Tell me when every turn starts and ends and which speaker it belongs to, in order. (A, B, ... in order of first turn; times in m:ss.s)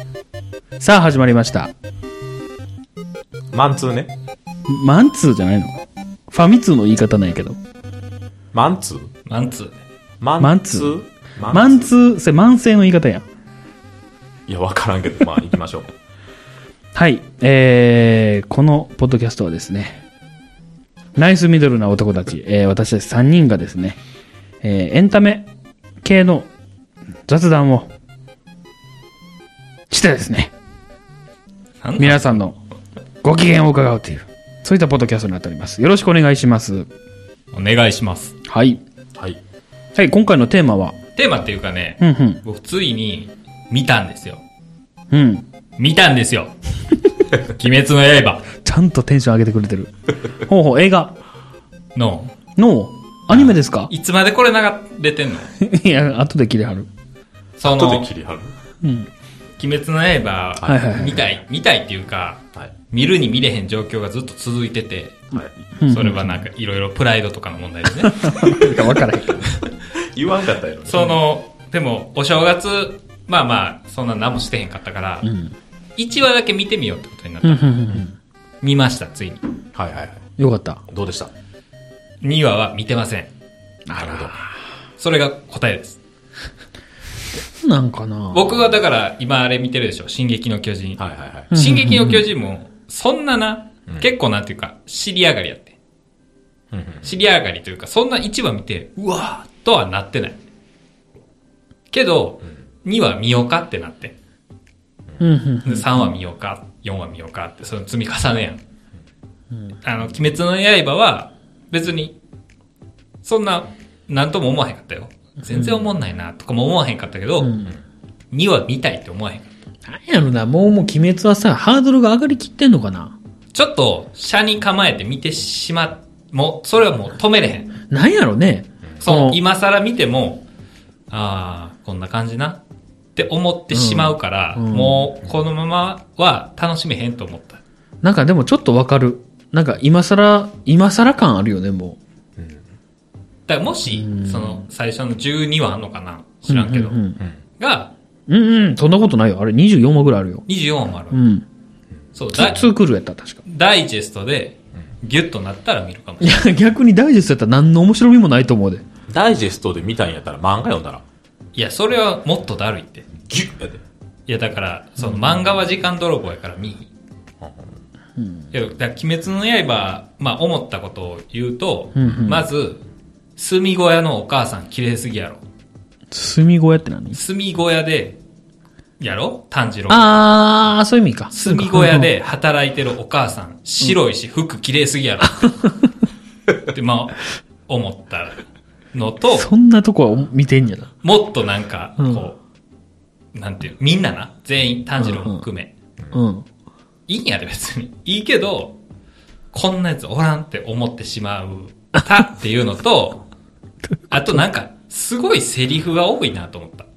0:00.8-0:01.7 A
0:03.5-0:04.1 B
0:04.7-0:07.6 A
0:08.5-0:09.1 B
0:09.3-0:09.8 C
0:10.2-0:11.9 B
0:10.4-0:10.9 A
0:11.5-0:13.3 A
0:14.5-0:15.9 B
0:16.9-0:20.0 A
0:21.2-0:24.0 A
0:24.6-0:25.5 A
0:26.0-0:26.5 A
0:27.3-0:27.9 A
0:29.9-0:30.5 A
0:31.8-0:32.4 C
0:32.0-0:32.6 A
0:33.2-0:36.9 A
0:37.5-0:38.4 C
0:38.5-0:38.8 A
0:40.0-0:41.0 A
0:41.2-0:44.4 C
0:42.0-0:42.4 A
0:45.1-0:45.5 A
0:45.8-0:46.5 C
0:47.3-0:48.5 C
0:48.6-0:51.2 A
0:52.0-0:52.3 C
0:52.6-0:53.9 A
0:53.3-0:55.5 C
0:55.6-0:56.9 A
0:57.6-0:58.1 C
0:57.6-0:58.5 B
0:58.8-0:59.1 A
0:59.6-1:05.2 C
1:00.6-1:01.3 A
1:05.4-1:06.4 A
1:05.9-1:08.4 C
1:08.0-1:09.5 A
1:10.0-1:11.2 B
1:10.9-1:15.3 C
1:15.2-1:15.6 A
1:16.0-1:18.0 C
1:17.4-1:18.2 A
1:18.6-1:19.4 C
1:19.7-1:20.2 B
1:20.4-1:20.8 A
1:20.9-1:21.3 B
1:22.2-1:23.3 C
1:23.9-1:24.4 A
1:23.9-1:24.4 B
1:25.0-1:26.0 C
1:27.5-1:28.5 A
1:28.3-1:35.8 C
1:31.0-1:31.5 B
1:31.5-1:32.2 A
1:36.7-1:37.1 B
1:37.0-1:40.4 C
1:39.0-1:39.4 A
1:41.9-1:44.2 C
1:45.2-1:46.1 A
1:45.6-1:48.6 C
1:49.8-1:52.2 C
1:53.2-1:57.6 C
1:55.4-1:55.9 A
1:57.4-1:57.7 A
1:58.3-1:59.5 C
1:59.9-2:03.2 A
2:03.5-2:07.8 C
2:07.9-2:09.4 A
2:09.0-2:10.5 C
2:11.1-2:12.6 C
2:13.2-2:17.6 C
2:13.7-2:15.1 A
2:18.0-2:22.0 A
2:22.4-2:22.6 B
2:23.5-2:27.0 C
2:23.9-2:24.6 A
2:26.5-2:27.2 A
2:27.6-2:27.9 C
2:28.3-2:30.4 A
2:30.5-2:31.2 C
2:31.1-2:31.5 A
2:32.2-2:32.7 C
2:32.3-2:33.4 A
2:33.4-2:36.5 C
2:36.2-2:38.8 A
2:39.1-2:41.0 B
2:41.6-2:43.1 C
2:43.3-2:43.8 B
2:44.3-2:46.9 C
2:45.0-2:45.4 A
2:47.4-2:47.8 B
2:48.2-2:48.5 A
2:48.5-2:52.8 C
2:52.0-2:52.5 A
2:53.4-2:55.4 C
2:56.1-2:57.2 A
2:57.1-2:58.2 C
2:59.0-3:00.2 C
2:59.9-3:02.1 A
3:01.3-3:05.6 C
3:05.2-3:06.1 A
3:06.7-3:08.4 C
3:08.9-3:09.5 C
3:09.3-3:10.9 A
3:11.0-3:12.4 C
3:12.0-3:12.2 A
3:13.3-3:15.7 C
3:15.0-3:15.4 A
3:16.1-3:16.5 A
3:17.1-3:18.8 C
3:19.5-3:23.2 C
3:24.1-3:24.4 A
3:24.1-3:26.9 C